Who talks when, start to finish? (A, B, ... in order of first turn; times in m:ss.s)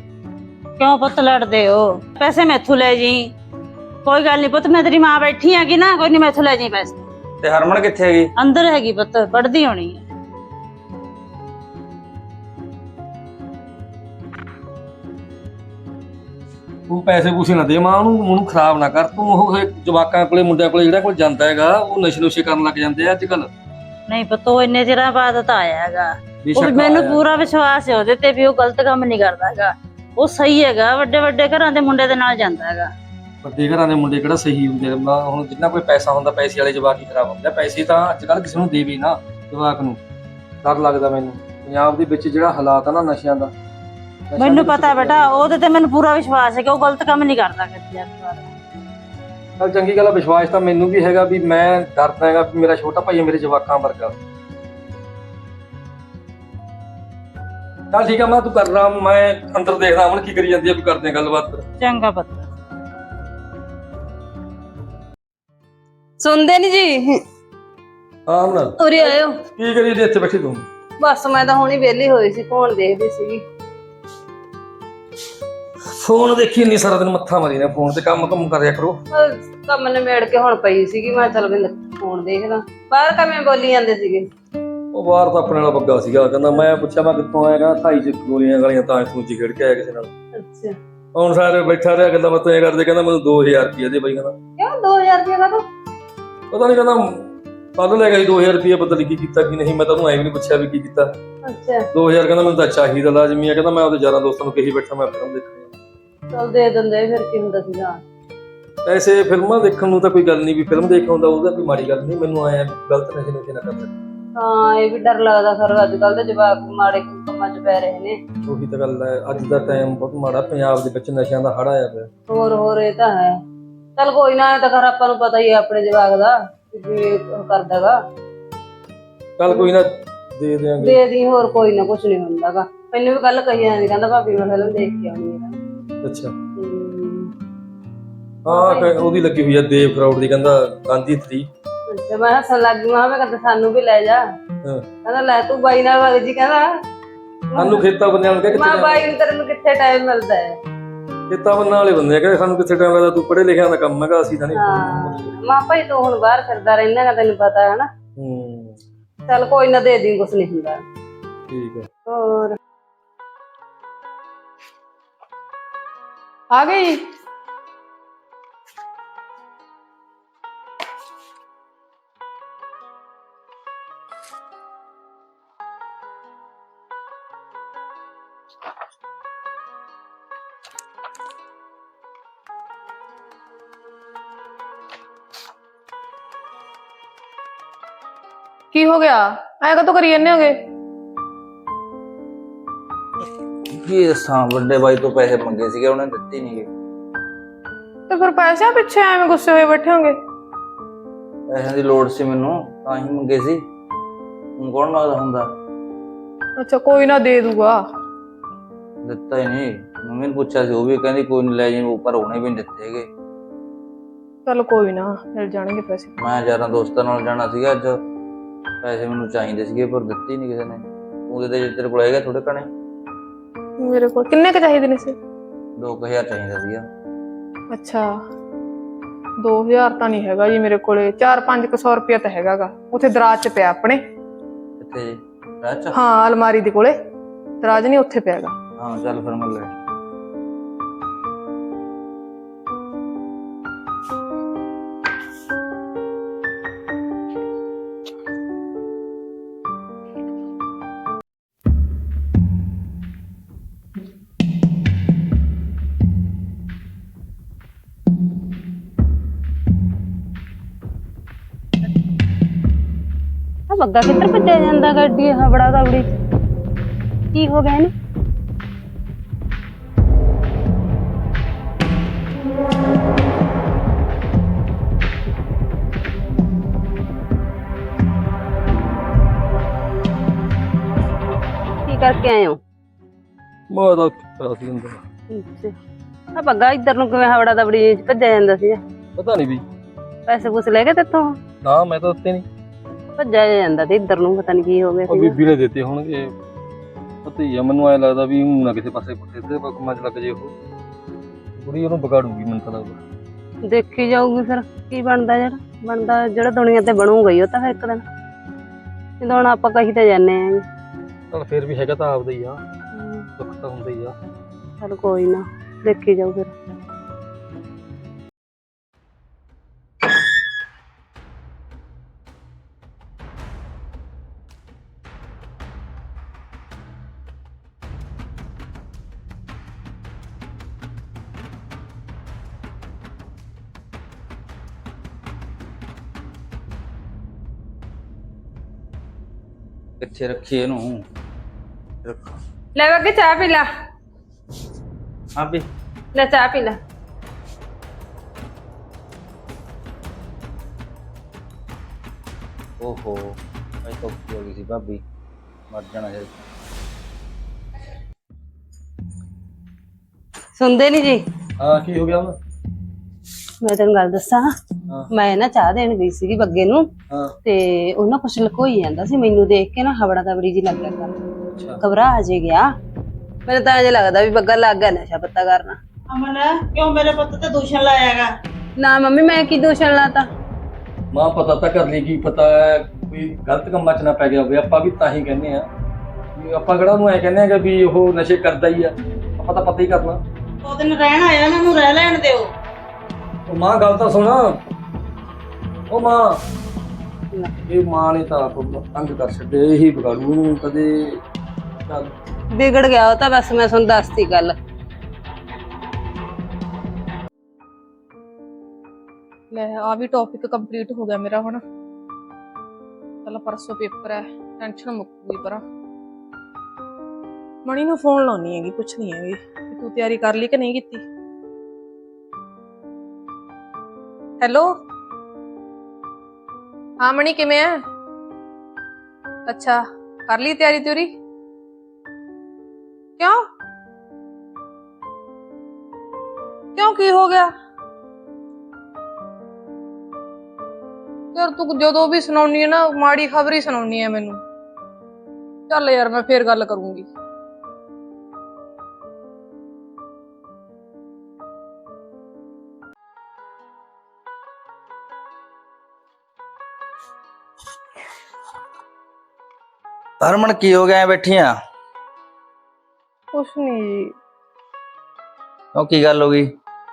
0:00.8-0:03.3 A
0:04.0-0:07.0 A
0:07.4-0:08.3 B
0:08.4-0:10.0 A
0:16.9-0:23.5 C
0:24.1-0:32.9 A
0:26.4-0:27.2 C
0:33.4-0:40.0 C
0:40.6-0:43.5 C
0:44.3-0:45.5 C
0:44.4-0:48.5 A
0:49.6-0:54.1 C
0:57.9-1:01.6 C
1:01.8-1:02.4 A
1:06.2-1:07.2 D
1:08.3-1:08.7 C
1:08.8-1:09.4 D
1:09.5-1:10.6 C
1:11.0-1:13.4 D
1:16.0-1:19.0 C
1:19.1-1:24.2 D
1:24.9-1:30.1 C
1:30.3-1:30.8 D
1:31.1-1:34.3 C
1:34.6-1:35.6 D
1:36.5-1:41.1 C
1:41.4-1:41.9 D
1:41.9-1:45.7 C
1:46.3-1:48.0 D
1:48.8-1:53.9 C
1:54.4-1:58.2 D
1:58.5-2:02.1 C
2:02.3-2:03.4 D
2:04.0-2:08.0 D
2:09.4-2:11.0 C
2:10.8-2:15.6 D
2:16.0-2:16.3 C
2:16.6-2:17.3 D
2:18.4-2:21.5 C
2:18.5-2:18.9 D
2:21.9-2:24.2 D
2:25.0-2:26.7 D
2:27.5-2:27.8 D
2:27.6-2:29.1 C
2:28.5-2:30.6 D
2:31.3-2:35.4 C
2:34.5-2:37.9 D
2:38.2-2:38.8 C
2:39.3-2:40.8 D
2:41.5-2:41.9 C
2:42.1-2:42.6 D
2:46.5-2:47.0 E
3:08.7-3:10.5 E
3:13.7-3:16.7 B
3:18.1-3:20.2 E
3:21.5-3:23.6 B
3:24.6-3:25.5 B
3:26.6-3:27.8 E
3:29.0-3:33.1 B
3:34.4-3:36.1 E
3:36.2-3:38.0 B
3:38.8-3:42.7 B
3:43.8-3:45.2 E
3:45.8-3:46.8 B
3:47.7-3:48.0 E
3:49.4-3:54.0 E
3:54.8-3:55.9 B
3:55.9-3:56.9 E
3:57.6-3:58.5 E
3:58.8-3:59.7 B
4:23.7-4:26.1 D
4:27.3-4:27.9 D
4:41.8-4:42.6 D
4:43.7-4:45.0 C
4:45.3-4:45.7 D
4:46.3-4:48.8 D
4:49.2-4:49.6 C
4:50.3-4:51.4 D
4:51.6-4:52.4 C
4:53.2-4:55.4 D
4:55.1-4:56.3 C
4:57.2-5:00.5 C
5:01.6-5:03.0 C
5:03.6-5:08.0 D
5:09.2-5:10.6 D
5:11.3-5:12.6 C
5:12.9-5:13.3 D
5:13.4-5:14.1 C
5:14.8-5:16.5 D
5:40.0-5:41.0 B
5:42.0-5:42.3 B
5:42.7-5:43.6 D
5:45.4-5:45.6 B
5:46.1-5:46.8 D
5:52.8-5:55.0 B
5:55.7-5:56.3 B
6:00.6-6:01.2 D
6:01.6-6:02.4 C
6:03.6-6:04.5 D
6:05.1-6:06.9 D
6:07.4-6:11.1 D
6:11.5-6:11.8 C
6:11.8-6:12.7 D
6:13.4-6:15.8 D
6:16.1-6:18.3 A
6:18.8-6:20.3 D
6:21.1-6:25.7 C
6:26.4-6:30.2 C
6:30.6-6:32.5 A
6:33.5-6:34.6 C
6:35.9-6:36.4 C
6:37.7-6:41.2 C
6:41.9-6:42.1 C
6:42.5-6:44.5 D
6:49.5-6:51.6 E
6:53.2-6:55.6 E
6:57.6-7:01.0 E
7:04.4-7:04.7 E
7:07.0-7:07.8 E
7:09.5-7:11.1 E
7:16.8-7:17.5 E
7:21.3-7:24.4 E
7:25.7-7:27.0 E
7:40.2-7:41.5 B
7:43.3-7:44.1 E
7:45.7-7:46.5 B